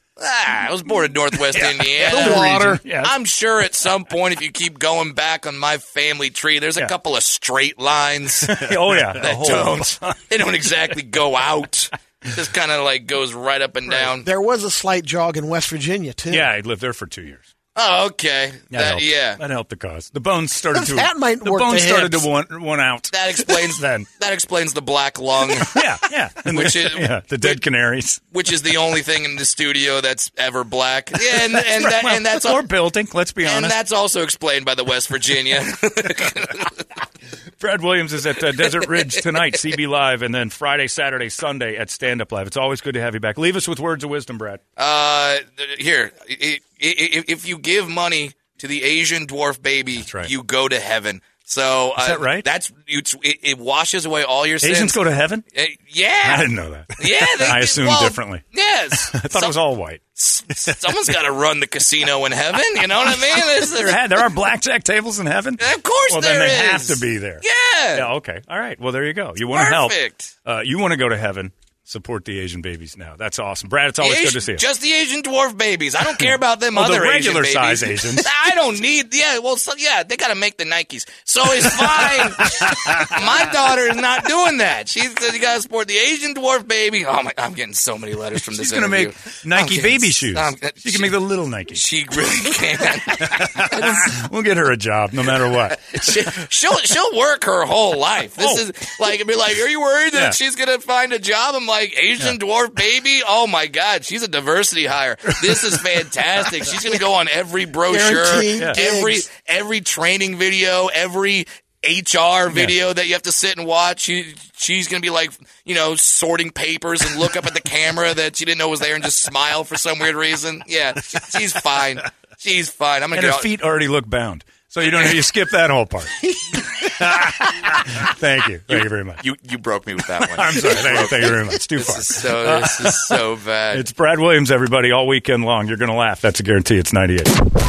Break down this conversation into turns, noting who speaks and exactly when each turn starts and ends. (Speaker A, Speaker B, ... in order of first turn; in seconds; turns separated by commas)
Speaker A: 0.2-14.2, Speaker B: 1.3-3.1, Speaker C: 2.1-2.8, Speaker B: 8.4-10.2, Speaker C: 14.2-16.5, Speaker B: 16.3-17.4, Speaker A: 17.8-19.4, Speaker B: 18.7-24.1, Speaker C: 20.7-22.3, Speaker A: 23.1-25.9, Speaker B: 25.4-28.2, Speaker A: 26.4-27.6, Speaker A: 28.3-32.6, Speaker B: 31.3-33.7, Speaker A: 33.4-36.8, Speaker B: 37.6-44.6, Speaker A: 38.8-39.2, Speaker A: 44.8-55.0, Speaker B: 50.0-50.3, Speaker B: 52.0-52.5, Speaker B: 54.6-55.4, Speaker A: 55.5-59.5, Speaker B: 56.2-60.0, Speaker A: 60.2-64.0, Speaker B: 63.1-67.4, Speaker A: 65.6-68.1, Speaker B: 67.9-74.6, Speaker A: 69.5-70.3, Speaker A: 74.0-91.2, Speaker B: 76.7-78.3, Speaker B: 82.2-83.1, Speaker B: 88.4-91.8, Speaker A: 91.7-94.1, Speaker B: 93.2-96.2, Speaker A: 95.7-123.5, Speaker B: 105.5-105.7, Speaker C: 107.9-109.2, Speaker B: 123.1-129.2, Speaker A: 124.8-125.2, Speaker A: 128.7-133.9, Speaker B: 130.2-133.2, Speaker B: 133.7-137.3